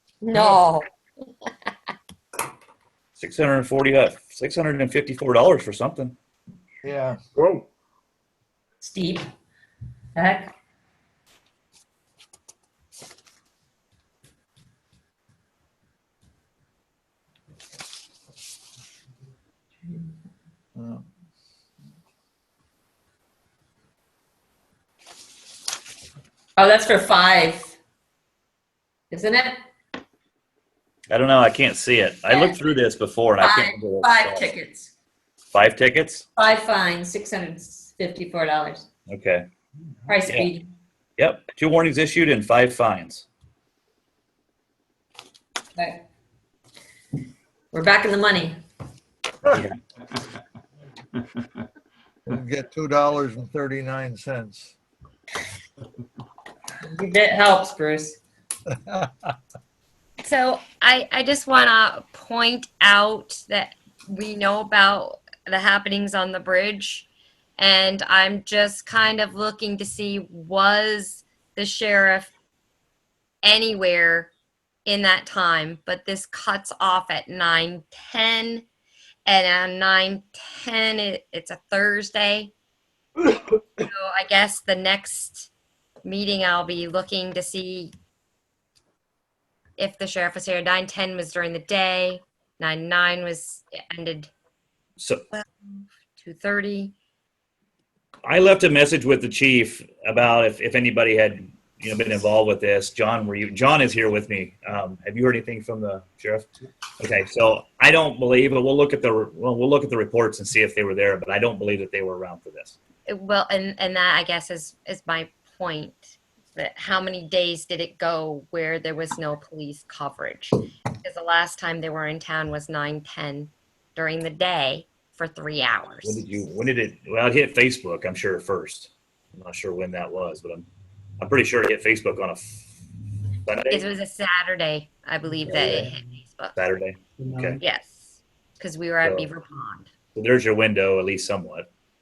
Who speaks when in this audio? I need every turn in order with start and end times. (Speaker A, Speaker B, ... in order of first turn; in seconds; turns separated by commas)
Speaker A: 0.2-0.8, Speaker B: 3.2-6.1, Speaker C: 6.8-7.2, Speaker D: 8.8-9.3, Speaker D: 10.2-10.5, Speaker C: 20.7-21.1, Speaker D: 26.6-27.7, Speaker D: 29.1-29.6, Speaker B: 31.1-34.5, Speaker D: 32.3-32.6, Speaker D: 33.4-34.9, Speaker B: 35.5-36.2, Speaker D: 36.4-38.8, Speaker B: 39.1-39.5, Speaker D: 40.1-40.7, Speaker B: 41.2-43.2, Speaker D: 47.7-48.6, Speaker B: 49.5-49.8, Speaker C: 52.3-54.7, Speaker D: 56.9-58.2, Speaker C: 58.7-59.1, Speaker A: 60.2-72.3, Speaker A: 73.4-74.3, Speaker A: 74.8-78.7, Speaker A: 79.2-82.5, Speaker A: 83.8-85.5, Speaker A: 86.0-87.9, Speaker A: 89.8-94.3, Speaker B: 95.0-95.2, Speaker A: 95.3-96.9, Speaker B: 98.2-106.5, Speaker B: 107.0-112.8, Speaker A: 113.1-126.2, Speaker B: 126.0-130.7, Speaker B: 131.2-132.6, Speaker B: 133.4-133.8, Speaker A: 133.7-136.6, Speaker B: 135.5-135.8, Speaker B: 136.6-137.6, Speaker A: 137.6-138.0, Speaker A: 138.6-139.9, Speaker B: 139.0-139.3, Speaker B: 140.1-141.7